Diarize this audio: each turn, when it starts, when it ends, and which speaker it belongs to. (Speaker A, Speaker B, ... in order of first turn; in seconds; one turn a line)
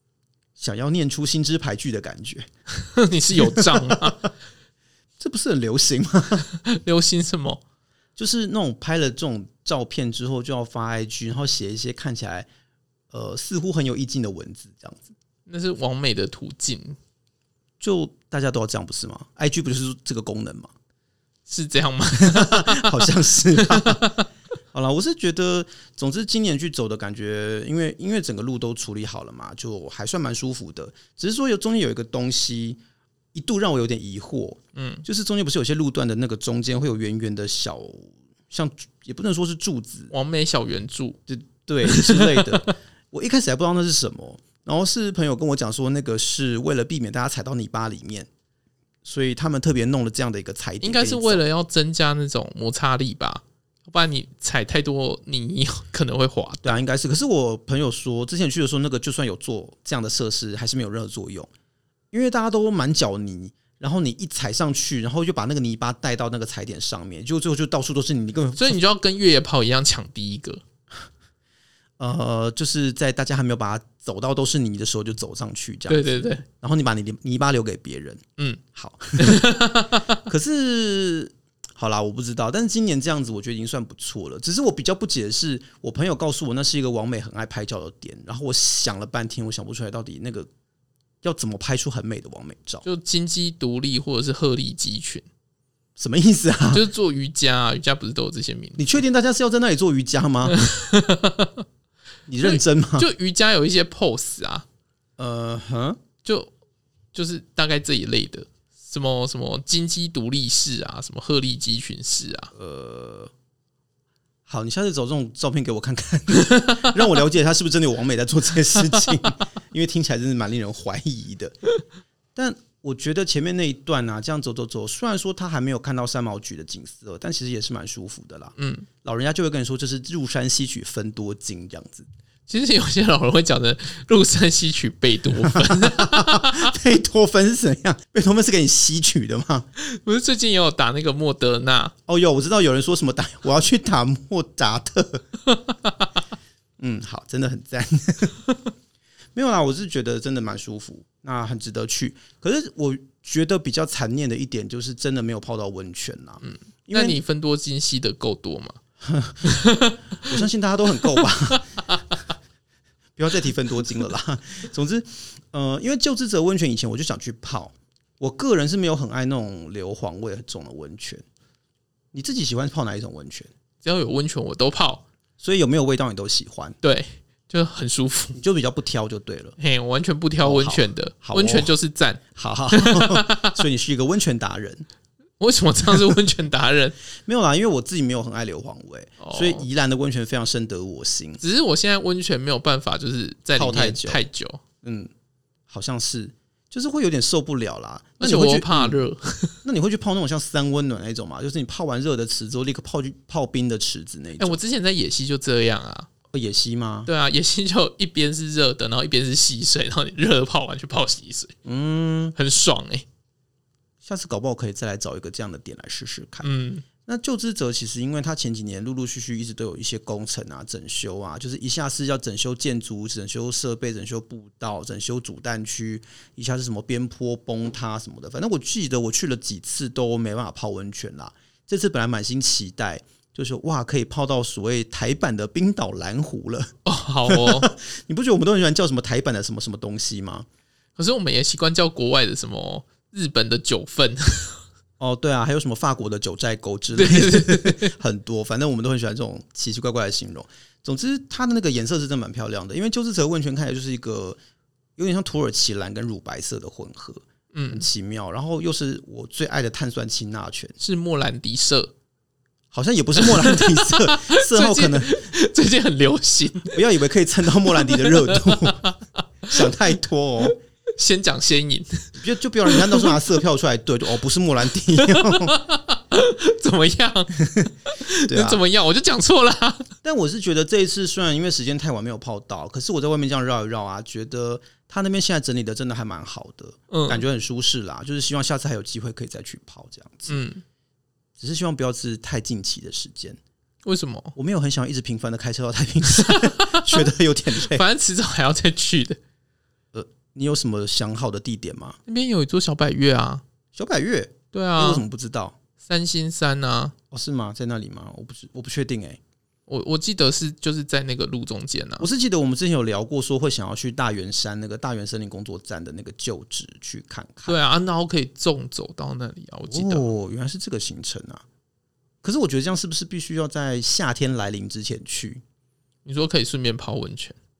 Speaker A: 0.6-2.5
Speaker B: 2.7-4.3
Speaker A: 3.4-4.1
Speaker A: 5.2-6.4
Speaker B: 6.4-7.6
Speaker A: 8.2-12.5
Speaker A: 13.1-15.1
Speaker B: 15.5-17.0
Speaker A: 17.8-20.7
Speaker B: 21.5-24.2
Speaker A: 22.2-24.1
Speaker A: 24.7-32.8
Speaker A: 33.3-40.1
Speaker B: 34.7-35.0
Speaker B: 40.1-41.2
Speaker A: 41.3-48.3
Speaker B: 41.8-42.7
Speaker A: 49.0-51.4
Speaker B: 50.8-56.7
Speaker A: 56.6-61.5
Speaker A: 62.1-68.8
Speaker B: 68.5-70.6
Speaker A: 72.0-78.2
Speaker B: 75.9-76.4
Speaker A: 78.7-79.6
Speaker B: 79.2-80.2
Speaker A: 80.2-90.5
Speaker A: 91.2-92.8
Speaker B: 92.8-95.3
Speaker A: 96.0-96.8
Speaker B: 96.7-99.0
Speaker A: 98.8-100.7
Speaker B: 100.5-101.6
Speaker A: 102.3-103.1
Speaker B: 102.4-104.7
Speaker A: 105.2-106.0
Speaker B: 106.2-106.5
Speaker B: 107.1-112.5
Speaker A: 112.5-113.3
Speaker A: 114.5-121.5
Speaker B: 116.4-116.9
Speaker A: 122.3-132.1
Speaker B: 128.6-128.9
Speaker B: 132.5-136.7
Speaker A: 135.3-139.7
Speaker B: 139.8-141.9
Speaker A: 142.1-145.2
Speaker A: 146.8-148.5
Speaker A: 149.3-157.2
Speaker B: 156.4-158.8
Speaker A: 159.0-159.6
Speaker B: 159.4-160.3
Speaker A: 160.2-161.8
Speaker B: 161.1-162.0
Speaker A: 163.2-171.2
Speaker A: 172.1-173.5
Speaker B: 173.8-175.0
Speaker A: 175.4-176.8
Speaker B: 176.8-178.4
Speaker A: 178.3-179.6
Speaker B: 179.6-183.6
Speaker A: 180.4-181.7
Speaker A: 182.3-184.8
Speaker B: 185.4-186.9
Speaker A: 185.8-186.2
Speaker A: 187.2-191.4
Speaker B: 189.2-189.7
Speaker B: 191.4-194.6
Speaker A: 193.5-194.2
Speaker A: 194.8-195.1
Speaker A: 195.7-199.0
Speaker B: 198.2-199.6
Speaker A: 199.6-204.6
Speaker B: 204.4-206.1
Speaker A: 206.3-207.1
Speaker B: 207.1-211.6
Speaker A: 211.6-212.3
Speaker B: 212.3-213.1
Speaker A: 214.0-216.5
Speaker B: 216.4-216.8
Speaker A: 217.1-236.7
Speaker B: 236.8-237.7
Speaker A: 237.3-240.4
Speaker B: 240.9-244.6
Speaker A: 245.0-254.4
Speaker B: 246.9-247.9
Speaker A: 255.0-260.7
Speaker B: 257.5-257.9
Speaker B: 260.8-261.9
Speaker A: 262.7-265.3
Speaker B: 263.2-266.8
Speaker A: 266.7-268.9
Speaker B: 267.7-269.7
Speaker A: 269.5-270.6
Speaker B: 270.5-273.1
Speaker A: 272.1-275.6
Speaker B: 275.0-277.4
Speaker A: 277.4-277.7
Speaker B: 277.9-279.9
Speaker A: 278.2-278.6
Speaker A: 280.0-290.4
Speaker B: 286.9-287.2
Speaker B: 290.3-290.6
Speaker A: 291.4-293.4
Speaker B: 293.8-294.3
Speaker A: 294.4-297.8
Speaker B: 296.1-299.2
Speaker A: 299.9-302.0
Speaker B: 302.1-303.4
Speaker A: 303.7-305.6
Speaker B: 304.5-305.0
Speaker B: 305.8-306.9
Speaker A: 307.1-309.2
Speaker B: 309.7-312.1
Speaker A: 312.0-317.6
Speaker B: 317.4-320.1
Speaker A: 319.7-321.4
Speaker A: 322.2-325.4
Speaker B: 326.0-327.4